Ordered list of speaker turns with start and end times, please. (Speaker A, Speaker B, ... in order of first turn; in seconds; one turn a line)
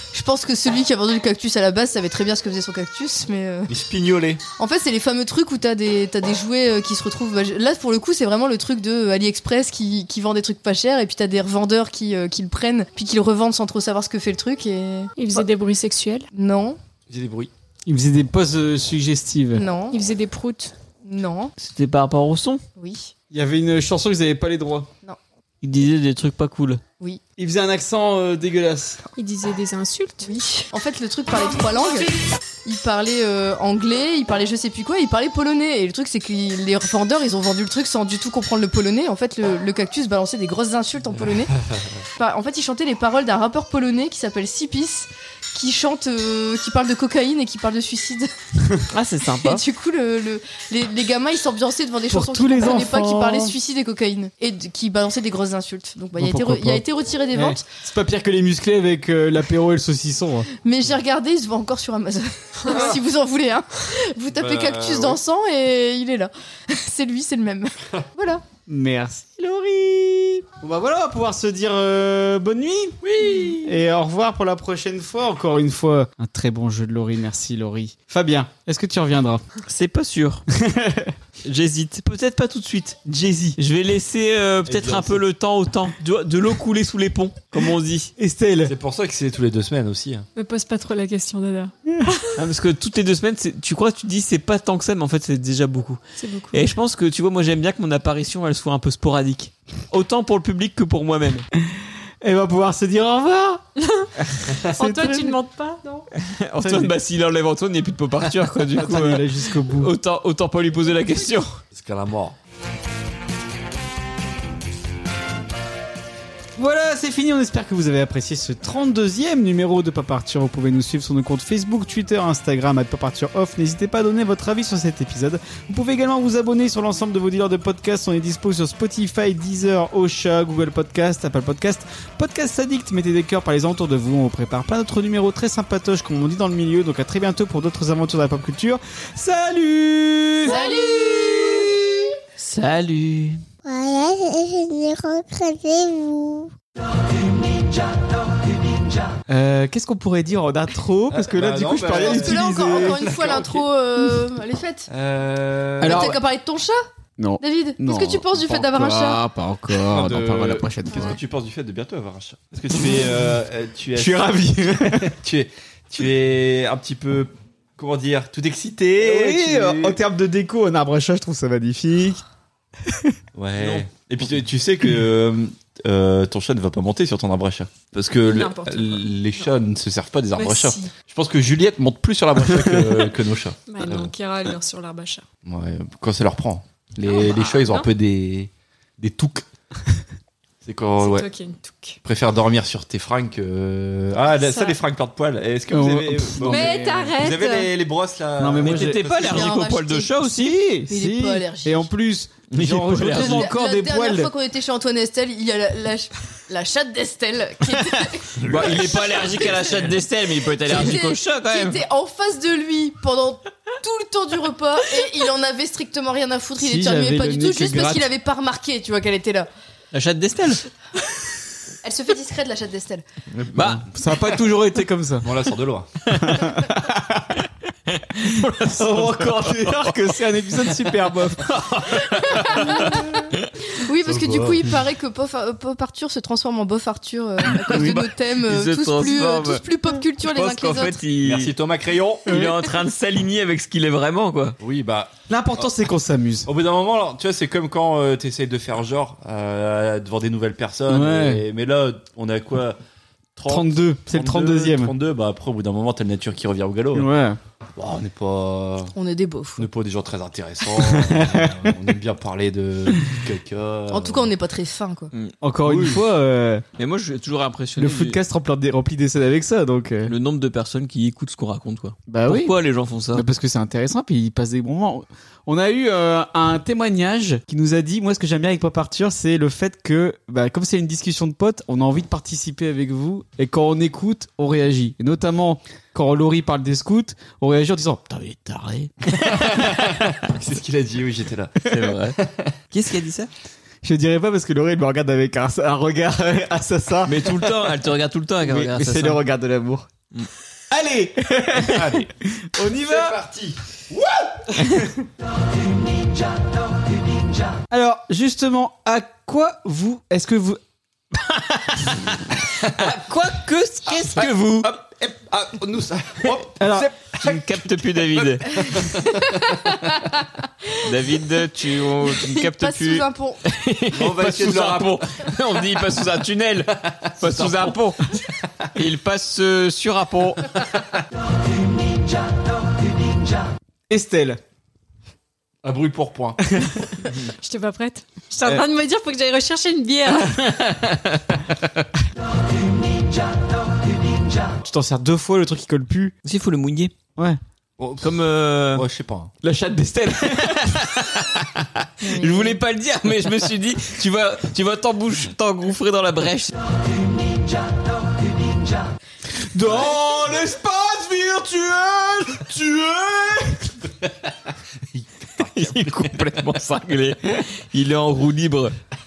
Speaker A: 0.1-3.7
Speaker B: 3.7-4.4
Speaker A: 4.6-15.4
Speaker C: 15.2-16.3
Speaker A: 16.3-16.8
Speaker B: 17.1-17.5
Speaker D: 17.9-19.6
Speaker A: 19.5-20.0
Speaker C: 19.9-20.7
Speaker A: 21.0-21.5
Speaker E: 21.6-22.6
Speaker A: 22.8-23.1
Speaker D: 23.3-24.9
Speaker E: 25.6-26.8
Speaker D: 27.4-29.0
Speaker C: 29.2-30.3
Speaker A: 30.2-32.1
Speaker A: 32.6-41.5
Speaker B: 41.1-42.0
Speaker A: 42.2-48.3
Speaker E: 48.9-49.6
Speaker A: 49.4-57.6
Speaker D: 52.1-53.6
Speaker D: 56.1-60.5
Speaker A: 60.6-68.4
Speaker B: 62.7-62.9
Speaker B: 64.3-65.2
Speaker D: 68.7-73.0
Speaker B: 73.0-73.8
Speaker D: 73.6-79.4
Speaker E: 79.7-80.4
Speaker D: 80.5-81.1
Speaker E: 81.4-83.0
Speaker D: 83.0-83.6
Speaker E: 83.6-88.1
Speaker B: 84.7-85.2
Speaker D: 88.2-88.7
Speaker B: 88.6-90.3
Speaker C: 90.3-92.3
Speaker E: 92.3-96.0
Speaker C: 96.2-96.6
Speaker E: 96.5-101.5
Speaker D: 101.6-103.6
Speaker C: 103.8-104.1
Speaker D: 104.5-105.4
Speaker C: 104.8-106.0
Speaker E: 106.2-111.6
Speaker D: 106.6-107.0
Speaker D: 108.8-109.9
Speaker B: 111.7-112.3
Speaker D: 116.5-142.1
Speaker A: 140.4-141.7
Speaker E: 142.4-143.4
Speaker F: 143.6-146.5
Speaker D: 149.3-153.3
Speaker B: 151.1-153.6
Speaker A: 151.9-154.9
Speaker B: 154.9-156.1
Speaker A: 155.8-156.8
Speaker D: 155.8-156.2
Speaker D: 157.2-161.2
Speaker A: 157.4-159.2
Speaker B: 159.8-170.0
Speaker D: 162.7-163.1
Speaker D: 163.9-165.1
Speaker D: 169.0-172.2
Speaker D: 172.8-173.8
Speaker B: 173.3-184.1
Speaker C: 178.2-179.5
Speaker C: 180.3-180.9
Speaker D: 182.6-183.0
Speaker C: 183.7-185.2
Speaker B: 185.4-189.4
Speaker C: 187.0-187.9
Speaker B: 190.6-191.3
Speaker C: 191.0-192.0
Speaker B: 192.0-199.6
Speaker C: 194.3-194.8
Speaker D: 195.7-197.1
Speaker C: 196.5-197.7
Speaker D: 198.4-199.0
Speaker E: 198.6-200.8
Speaker A: 199.2-201.9
Speaker D: 200.7-204.3
Speaker E: 202.5-203.4
Speaker A: 203.1-210.0
Speaker E: 208.4-211.8
Speaker A: 210.6-219.5
Speaker D: 216.6-218.1
Speaker E: 219.9-220.6
Speaker A: 221.8-223.0
Speaker B: 223.3-223.8
Speaker E: 223.5-223.8
Speaker D: 223.6-225.3
Speaker B: 225.2-225.9
Speaker E: 226.1-226.9
Speaker D: 226.2-227.0
Speaker E: 227.9-233.4
Speaker D: 228.2-233.1
Speaker A: 232.5-233.0
Speaker A: 233.7-241.0
Speaker B: 234.0-234.8
Speaker E: 237.5-239.6
Speaker D: 237.7-238.0
Speaker E: 240.2-241.5
Speaker B: 241.2-242.3
Speaker E: 242.2-244.6
Speaker D: 242.3-242.7
Speaker B: 244.6-245.7
Speaker D: 245.3-246.5
Speaker B: 246.4-252.8
Speaker D: 250.9-251.4
Speaker B: 253.4-257.1
Speaker D: 253.4-254.9
Speaker D: 256.9-257.4
Speaker B: 257.8-258.9
Speaker A: 258.9-259.7
Speaker B: 259.6-264.3
Speaker D: 260.7-261.8
Speaker A: 263.9-265.1
Speaker D: 265.4-266.6
Speaker B: 265.6-266.0
Speaker E: 266.8-268.2
Speaker D: 267.8-270.1
Speaker E: 270.1-273.2
Speaker D: 272.1-272.6
Speaker D: 273.1-288.9
Speaker B: 289.2-291.6
Speaker E: 291.6-292.2
Speaker B: 292.1-292.5
Speaker E: 292.7-293.3
Speaker D: 293.8-297.5
Speaker E: 297.1-299.2
Speaker D: 298.4-299.9
Speaker D: 300.7-303.2
Speaker B: 301.6-302.1
Speaker B: 302.8-304.6
Speaker D: 304.6-304.9
Speaker D: 307.7-310.6
Speaker E: 311.3-314.7
Speaker B: 313.9-319.5
Speaker D: 316.3-316.9
Speaker E: 317.2-318.6
Speaker A: 319.0-320.0
Speaker E: 320.8-328.0
Speaker A: 322.1-323.4
Speaker B: 323.9-325.0
Speaker B: 327.2-327.8
Speaker E: 328.7-330.5
Speaker D: 333.9-334.4
Speaker B: 335.6-337.3
Speaker C: 337.4-340.4
Speaker D: 344.6-346.1
Speaker E: 346.2-346.9
Speaker B: 347.8-349.3
Speaker E: 348.0-348.9
Speaker D: 349.4-350.8
Speaker E: 350.3-356.5
Speaker A: 352.0-352.6
Speaker D: 359.5-363.7
Speaker B: 364.9-366.4
Speaker E: 365.4-368.7